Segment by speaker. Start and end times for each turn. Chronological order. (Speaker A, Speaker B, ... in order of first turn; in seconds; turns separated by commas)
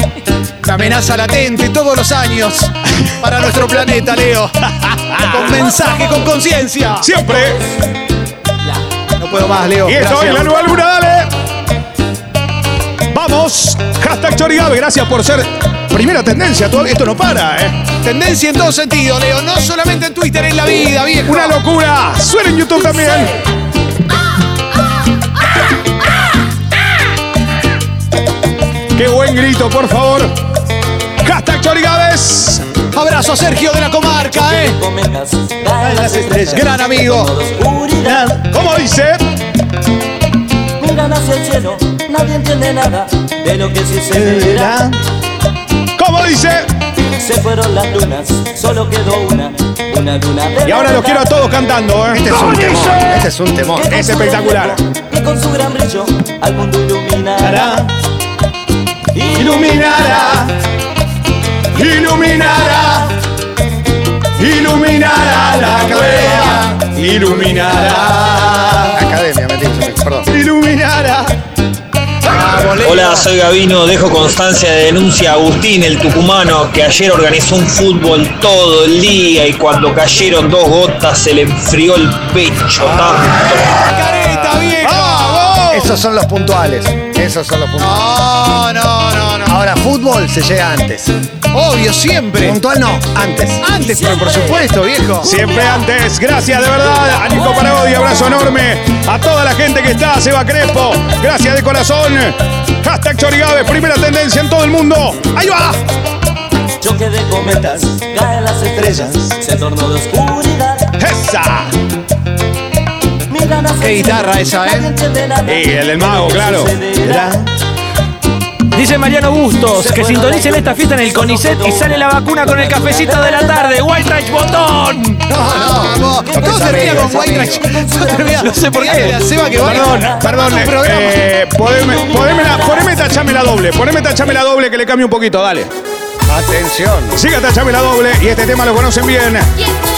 Speaker A: 0.6-4.5, Speaker B: 5.1-5.5, Speaker A: 5.1-7.1, Speaker B: 7.0-7.6, Speaker A: 9.2-10.6, Speaker B: 9.8-11.3, Speaker B: 13.1-17.8, Speaker A: 18.0-21.6, Speaker B: 21.2-23.3, Speaker B: 28.9-30.3, Speaker B: 31.2-32.6, Speaker A: 32.9-34.8, Speaker C: 34.4-38.3, Speaker A: 35.8-37.3, Speaker B: 38.0-39.2, Speaker C: 40.8-44.8, Speaker B: 44.1-44.9, Speaker B: 46.0-46.7, Speaker C: 47.1-51.4, Speaker B: 50.6-52.9, Speaker D: 52.1-53.9, Speaker C: 53.8-57.8, Speaker B: 53.9-54.8, Speaker B: 57.4-57.9, Speaker C: 59.1-60.1, Speaker B: 59.3-60.5, Speaker B: 61.7-63.1, Speaker B: 64.4-68.9, Speaker D: 66.0-66.6, Speaker D: 68.9-70.3, Speaker B: 70.3-71.3, Speaker A: 72.3-73.2, Speaker E: 72.8-83.7, Speaker A: 82.8-83.2, Speaker A: 83.7-85.5, Speaker B: 84.8-85.9, Speaker D: 85.7-88.1, Speaker A: 87.8-89.5, Speaker D: 89.5-91.1, Speaker A: 91.5-92.6, Speaker D: 92.4-93.6, Speaker A: 93.6-95.3, Speaker B: 95.2-105.8, Speaker C: 106.8-110.9, Speaker B: 111.0-111.7, Speaker C: 113.3-117.3, Speaker A: 113.8-114.9, Speaker B: 115.5-116.7, Speaker F: 118.7-125.2, Speaker C: 119.7-123.7, Speaker D: 125.3-127.6, Speaker A: 125.5-131.1, Speaker C: 126.0-130.8, Speaker F: 128.4-129.2, Speaker B: 129.6-135.7, Speaker C: 131.8-132.8, Speaker D: 136.3-137.2, Speaker B: 137.1-139.5